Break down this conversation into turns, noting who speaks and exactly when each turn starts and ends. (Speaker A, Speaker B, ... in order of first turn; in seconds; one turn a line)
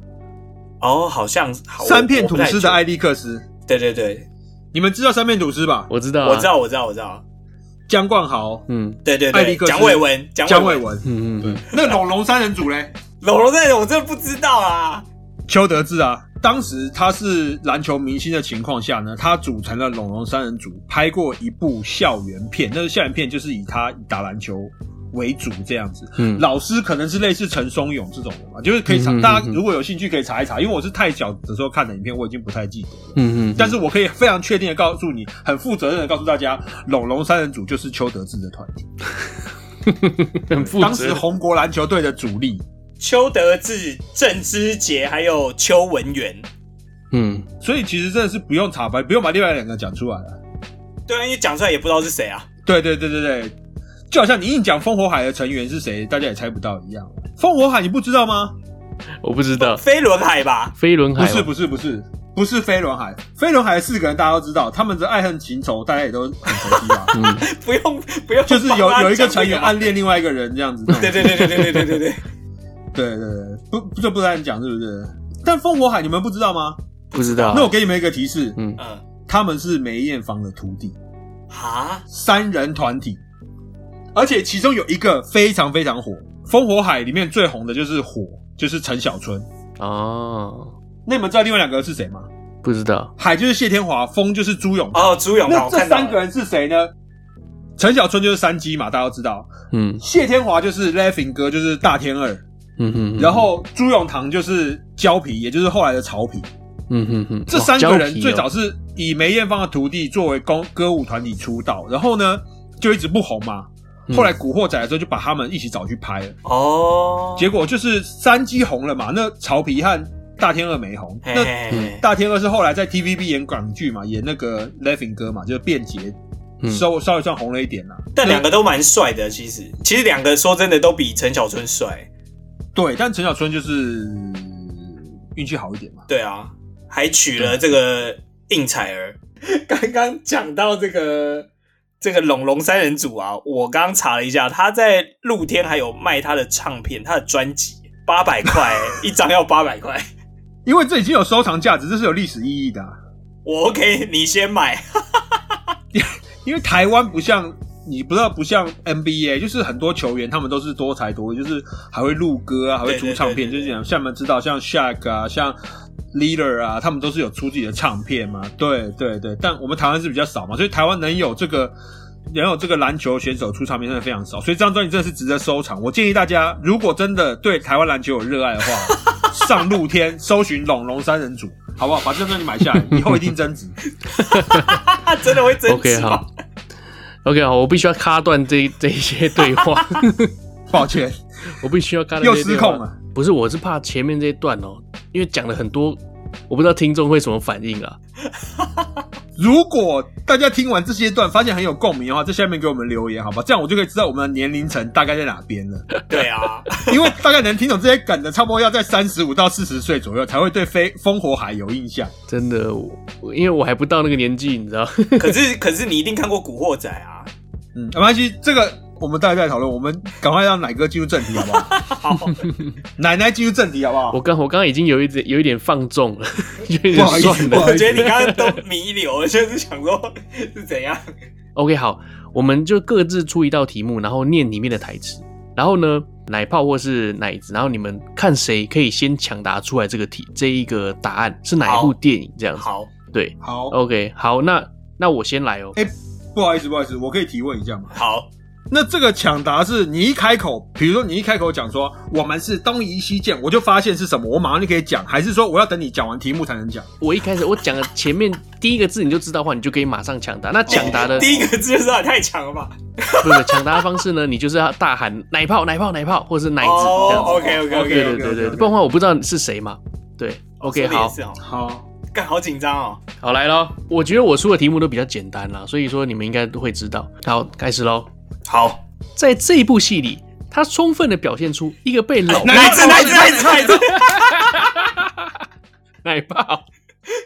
Speaker A: 0.8-2.8
Speaker B: 1.8-3.5
Speaker A: 3.7-4.3
Speaker B: 4.7-5.9
Speaker C: 5.9-6.5
Speaker A: 6.2-7.2
Speaker B: 7.9-8.7
Speaker C: 8.7-9.0
Speaker A: 9.1-10.8
Speaker B: 9.3-12.9
Speaker C: 11.0-11.6
Speaker A: 13.2-15.1
Speaker B: 15.5-38.9
Speaker C: 26.2-26.4
Speaker C: 28.9-29.6
Speaker C: 33.2-33.8
Speaker C: 39.8-41.2
Speaker B: 40.5-42.6
Speaker A: 43.0-46.5
Speaker C: 47.1-47.5
Speaker B: 47.6-50.4
Speaker A: 51.1-52.5
Speaker B: 52.7-53.5
Speaker B: 54.1-58.5
Speaker C: 59.2-59.8
Speaker A: 59.6-60.7
Speaker C: 60.8-61.5
Speaker B: 61.2-67.2
Speaker A: 66.8-69.9
Speaker C: 67.1-67.5
Speaker B: 68.5-71.5
Speaker C: 70.9-72.0
Speaker A: 70.9-72.2
Speaker B: 72.9-76.8
Speaker A: 77.1-77.7
Speaker C: 77.1-77.7
Speaker B: 77.5-78.6
Speaker A: 78.8-79.0
Speaker B: 79.3-81.0
Speaker A: 81.5-82.0
Speaker B: 82.1-83.2
Speaker B: 84.2-89.5
Speaker C: 89.8-90.7
Speaker B: 91.1-92.3
Speaker C: 92.6-93.1
Speaker B: 93.2-96.9
Speaker A: 94.9-96.2
Speaker B: 97.8-102.4
Speaker C: 99.7-100.0
Speaker C: 102.8-103.5
Speaker B: 103.2-106.5
Speaker C: 106.9-108.5
Speaker B: 107.5-116.4
Speaker A: 116.5-117.5
Speaker B: 117.4-128.4
Speaker A: 121.2-122.0
Speaker A: 128.2-132.1
Speaker B: 132.8-136.1
Speaker A: 136.1-141.5
Speaker A: 142.0-150.1
Speaker B: 150.7-153.0
Speaker A: 153.4-155.2
Speaker B: 155.9-165.6
Speaker A: 162.9-163.7
Speaker B: 166.1-171.8
Speaker B: 172.3-183.8
Speaker C: 182.8-183.3
Speaker A: 184.1-186.3
Speaker C: 184.2-184.8
Speaker C: 185.7-186.2
Speaker C: 187.2-190.3
Speaker B: 190.7-191.2
Speaker C: 191.5-198.0
Speaker B: 192.2-193.0
Speaker B: 199.4-205.9
Speaker A: 206.1-207.1
Speaker B: 206.8-212.1
Speaker C: 212.3-215.4
Speaker A: 215.2-217.3
Speaker B: 217.8-221.8
Speaker A: 221.4-222.4
Speaker B: 223.0-224.2
Speaker C: 224.1-228.6
Speaker B: 226.9-228.1
Speaker A: 227.0-231.1
Speaker C: 231.6-245.8
Speaker A: 241.6-241.9
Speaker A: 242.6-242.9
Speaker B: 243.4-243.8
Speaker B: 245.8-247.9
Speaker A: 247.9-248.3
Speaker B: 248.7-256.9
Speaker C: 257.0-261.3
Speaker B: 260.7-261.5
Speaker A: 260.7-263.9
Speaker C: 263.2-271.1
Speaker A: 266.6-268.2
Speaker B: 267.0-268.7
Speaker A: 270.6-271.4
Speaker B: 271.4-271.9
Speaker A: 272.1-273.0
Speaker C: 273.2-278.1
Speaker A: 278.5-278.8
Speaker C: 279.2-285.4
Speaker A: 282.3-284.4
Speaker B: 282.4-284.0
Speaker C: 286.0-286.6